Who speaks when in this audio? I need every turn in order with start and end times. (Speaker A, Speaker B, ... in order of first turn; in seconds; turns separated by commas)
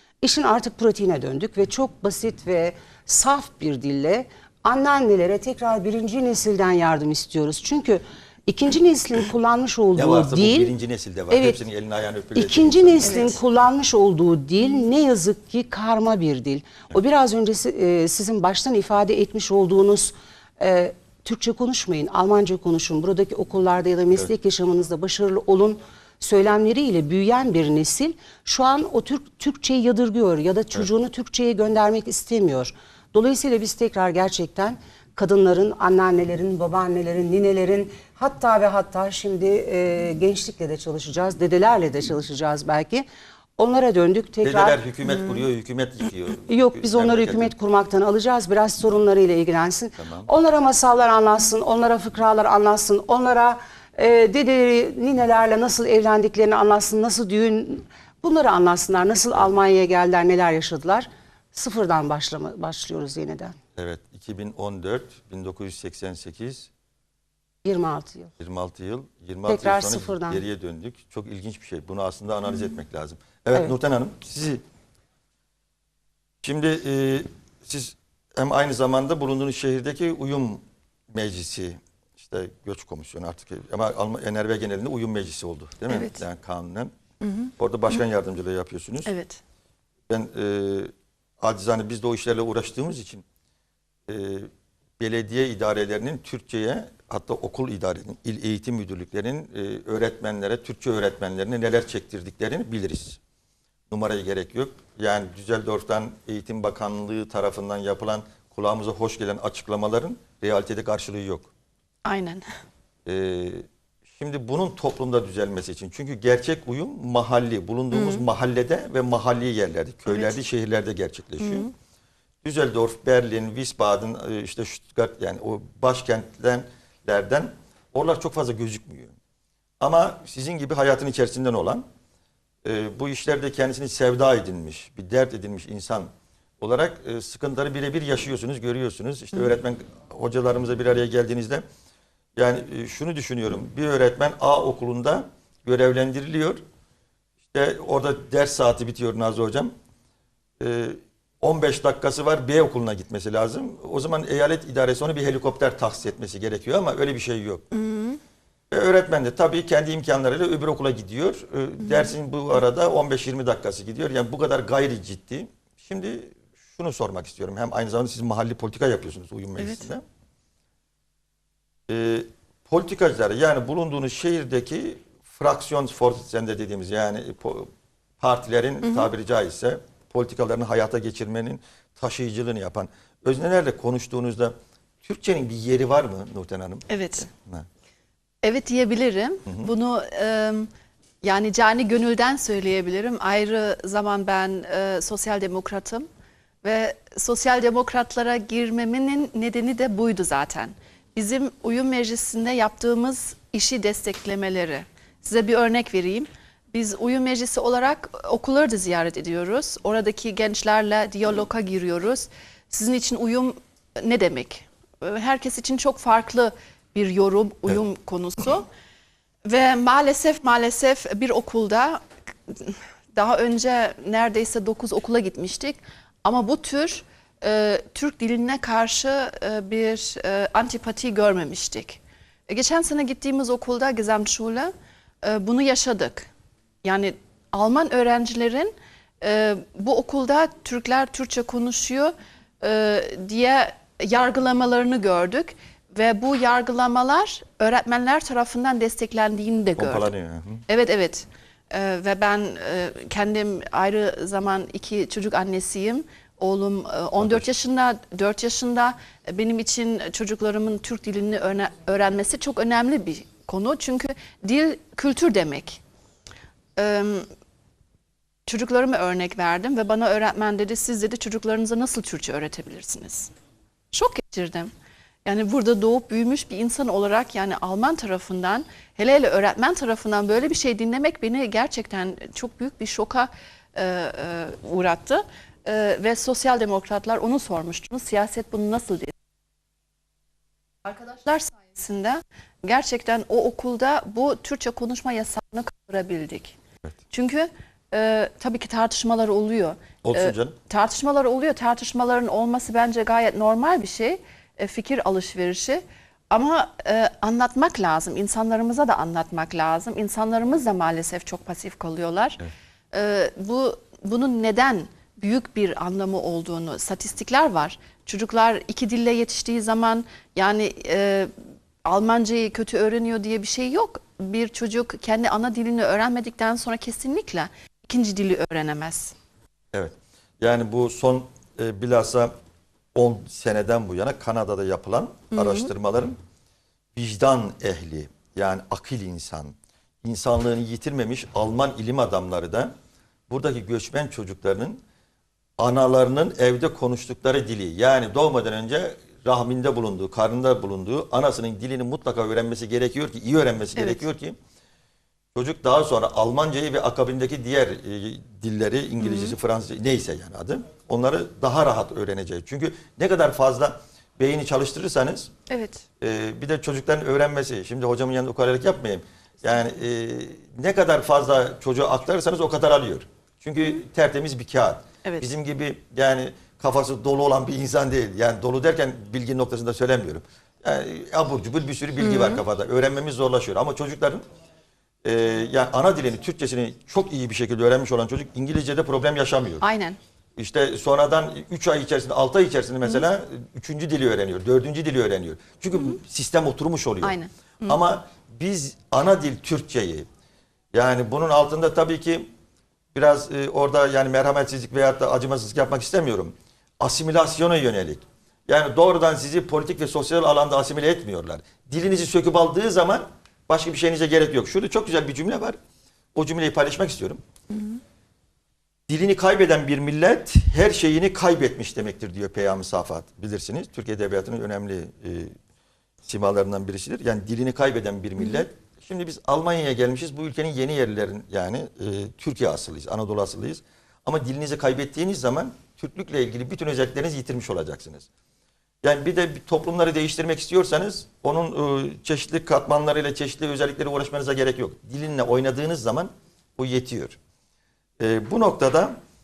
Speaker A: 0.2-10.7, Speaker B: 10.0-13.4, Speaker A: 11.3-11.6, Speaker A: 12.3-44.8, Speaker C: 13.0-13.3, Speaker B: 44.4-47.5, Speaker A: 46.5-63.6, Speaker B: 50.0-50.3, Speaker B: 63.8-66.7, Speaker A: 67.6-68.3, Speaker B: 68.4-74.6, Speaker A: 69.5-70.4, Speaker B: 76.4-86.9, Speaker C: 85.9-86.2, Speaker C: 87.2-87.5, Speaker B: 87.6-89.1, Speaker C: 89.1-89.4, Speaker B: 90.1-93.2, Speaker B: 94.1-103.2, Speaker B: 103.9-111.5, Speaker C: 112.0-112.5, Speaker B: 113.1-121.7, Speaker C: 117.9-118.2, Speaker C: 120.1-120.4, Speaker C: 121.4-121.7, Speaker B: 122.4-129.2, Speaker B: 129.8-131.9, Speaker B: 132.7-141.7, Speaker B: 142.4-146.6, Speaker B: 147.5-149.7, Speaker B: 150.6-157.7, Speaker C: 157.7-158.2, Speaker B: 158.7-170.0, Speaker C: 161.8-162.1, Speaker B: 171.9-187.7, Speaker C: 178.8-179.1, Speaker C: 186.9-187.3, Speaker C: 188.4-190.7, Speaker B: 189.5-189.7, Speaker C: 191.2-196.1, Speaker C: 196.6-218.7, Speaker C: 219.4-236.3, Speaker C: 236.8-250.1, Speaker B: 249.8-250.6, Speaker C: 250.7-265.8, Speaker B: 257.2-257.4, Speaker C: 266.8-267.3, Speaker C: 268.5-273.3, Speaker C: 273.9-274.7, Speaker C: 275.2-289.1, Speaker C: 290.9-296.6, Speaker C: 297.1-321.3, Speaker B: 300.0-300.6, Speaker C: 321.9-329.1, Speaker B: 329.7-332.3, Speaker B: 332.9-336.1, Speaker C: 335.4-335.7, Speaker B: 337.0-342.7, Speaker B: 343.3-344.8, Speaker B: 345.6-354.4, Speaker C: 353.8-354.1, Speaker B: 355.4-365.3, Speaker C: 359.0-359.4, Speaker C: 365.5-365.8, Speaker B: 366.0-384.2, Speaker C: 382.0-382.4, Speaker B: 385.0-389.6, Speaker C: 389.6-390.0, Speaker B: 390.4-397.1, Speaker C: 397.0-397.8, Speaker B: 397.7-400.1, Speaker B: 400.7-402.3, Speaker B: 402.9-415.6, Speaker B: 416.1-417.2, Speaker B: 418.9-425.4, Speaker B: 426.0-438.1, Speaker B: 438.8-447.2, Speaker B: 448.0-449.0